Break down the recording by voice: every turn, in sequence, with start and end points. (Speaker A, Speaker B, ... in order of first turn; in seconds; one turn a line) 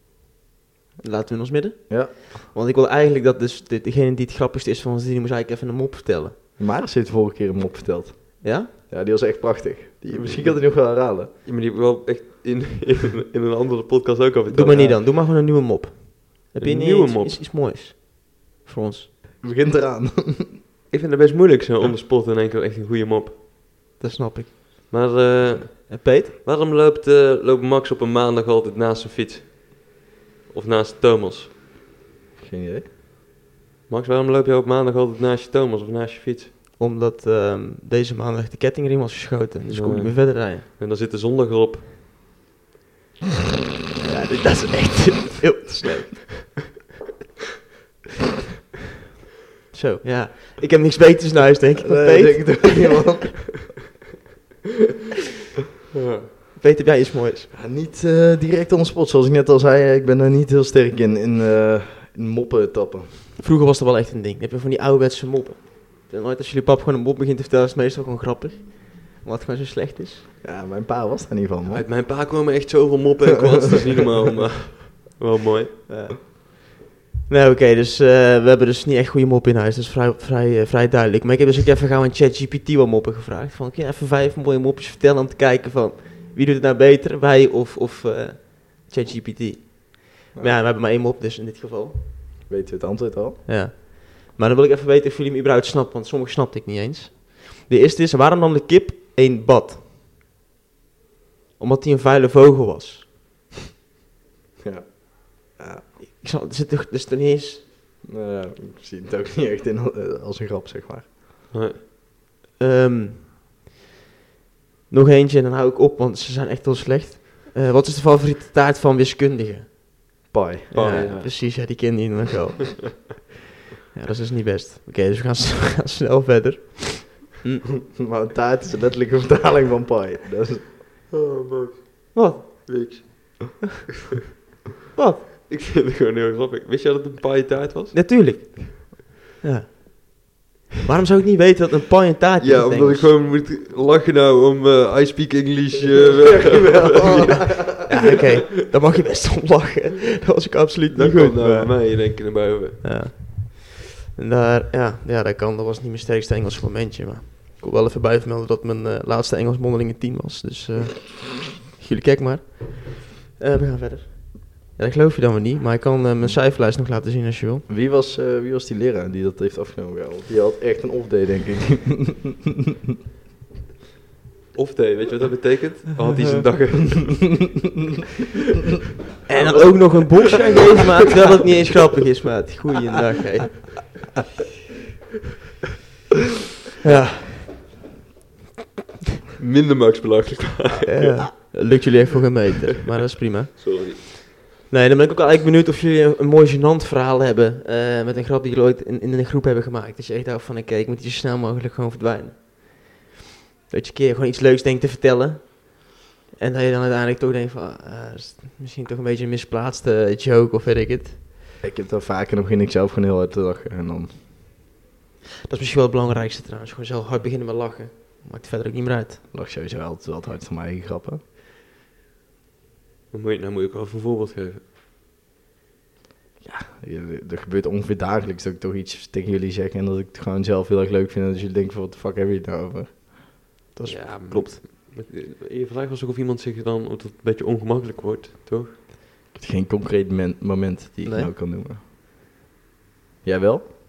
Speaker A: 1.0-6.3
Speaker B: 6.6-11.3
Speaker A: 8.4-8.7
Speaker C: 10.1-15.0
Speaker A: 14.5-19.1
Speaker C: 16.6-17.4
Speaker B: 19.4-20.6
Speaker C: 20.9-23.4
Speaker A: 24.0-24.9
Speaker C: 24.9-31.5
Speaker A: 25.9-26.3
Speaker B: 32.4-32.9
Speaker C: 33.9-36.5
Speaker A: 36.8-40.6
Speaker C: 39.7-41.9
Speaker A: 44.0-46.6
Speaker A: 49.7-53.0
Speaker B: 51.8-53.5
Speaker C: 55.9-56.3
Speaker A: 56.6-57.5
Speaker B: 57.5-63.2
Speaker A: 63.4-70.3
Speaker B: 70.4-71.9
Speaker C: 71.7-75.8
Speaker A: 75.9-92.0
Speaker B: 92.5-93.4
Speaker A: 93.5-99.8
Speaker A: 101.6-103.1
Speaker B: 104.6-105.9
Speaker A: 106.1-107.6
Speaker B: 108.0-111.2
Speaker C: 111.5-111.8
Speaker A: 112.6-113.3
Speaker A: 114.9-119.9
Speaker B: 120.3-121.0
Speaker C: 120.7-121.4
Speaker A: 120.7-123.2
Speaker A: 123.9-127.7
Speaker B: 128.0-130.7
Speaker C: 131.1-133.6
Speaker A: 132.1-132.7
Speaker A: 134.9-135.3
Speaker C: 135.5-138.6
Speaker A: 137.9-143.2
Speaker C: 142.4-148.0
Speaker B: 146.5-147.7
Speaker A: 147.3-167.7
Speaker C: 150.9-152.8
Speaker B: 167.7-172.4
Speaker C: 174.5-177.6
Speaker A: 179.3-183.8
Speaker C: 179.4-180.7
Speaker A: 186.8-187.6
Speaker C: 189.4-191.3
Speaker A: 190.9-203.0
Speaker C: 193.6-194.1
Speaker A: 203.7-211.2
Speaker B: 211.6-214.2
Speaker A: 215.5-219.2
Speaker B: 219.3-221.2
Speaker C: 223.1-224.6
Speaker B: 226.4-233.1
Speaker A: 233.7-234.6
Speaker C: 233.8-238.8
Speaker B: 239.3-241.8
Speaker A: 241.0-241.3
Speaker B: 243.2-243.6